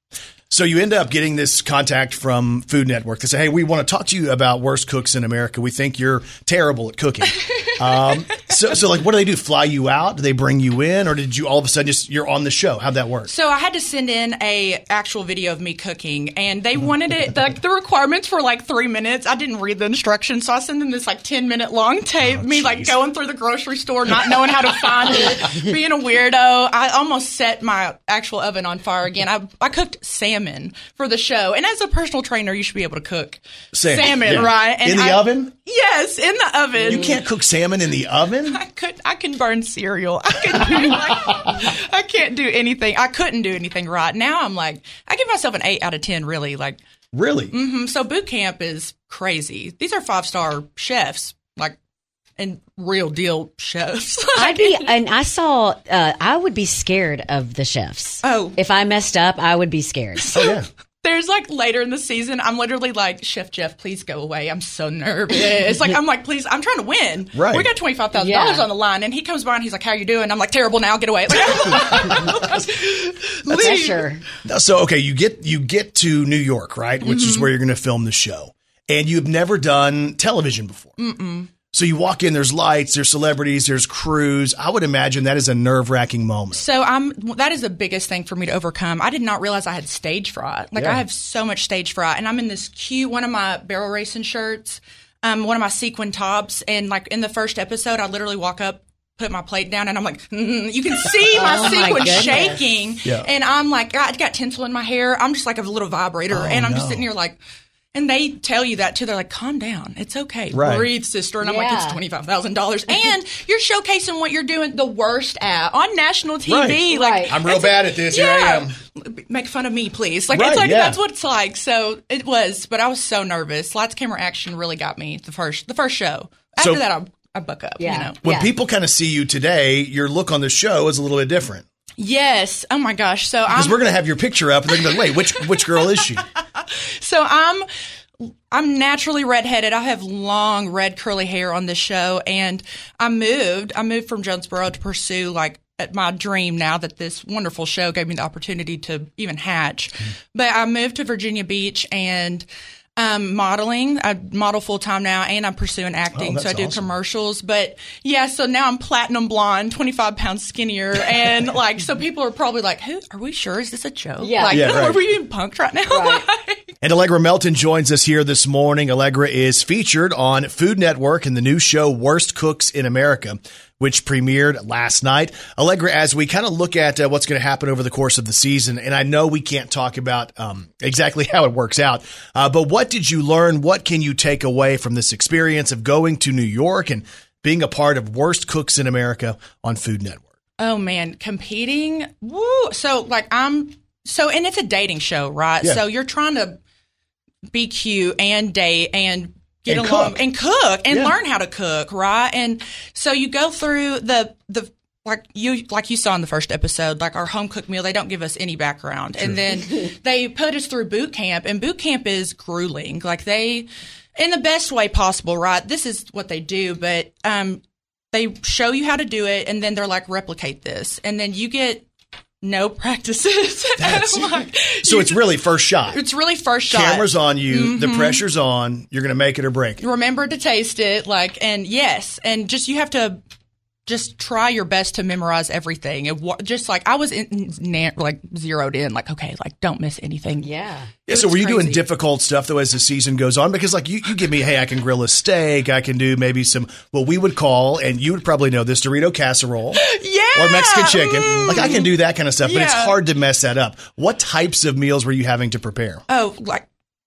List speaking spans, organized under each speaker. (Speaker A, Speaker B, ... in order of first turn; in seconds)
Speaker A: 0.5-13.3, 22.2-23.0, 33.7-35.5, 36.8-38.6, 47.1-47.6, 60.3-60.7, 67.3-67.7, 71.5-72.7, 74.4-81.0, 81.7-86.7, 90.8-91.0, 102.0-102.2, 106.3-107.1, 110.5-110.9, 116.5-118.8, 120.3-121.0, 126.6-126.8, 128.2-131.7, 133.5-136.3, 156.1-156.9, 164.5-165.1, 166.8-190.3, 199.7-200.2, 209.2-209.4, 223.8-226.0, 226.7-229.8, 241.1-256.0
Speaker B: 7.4-8.4, 13.3-37.2, 38.5-46.8, 47.5-51.8, 52.4-54.9, 58.2-58.6, 60.2-74.1, 77.0-77.5, 81.0-81.5, 86.5-107.4, 107.9-128.2, 132.0-133.8, 134.7-137.7, 138.5-152.5, 153.0-166.7, 190.6-196.6, 197.5-221.9, 222.4-228.2, 229.8-233.2, 233.9-240.5, 241.1-241.8, 249.8-253.0, 256.1-256.7
Speaker C: 54.4-60.3, 68.2-68.7, 73.5-74.2, 101.3-102.6, 111.4-112.0, 116.9-117.4, 127.8-128.5, 164.2-164.8, 165.9-166.2, 240.4-240.9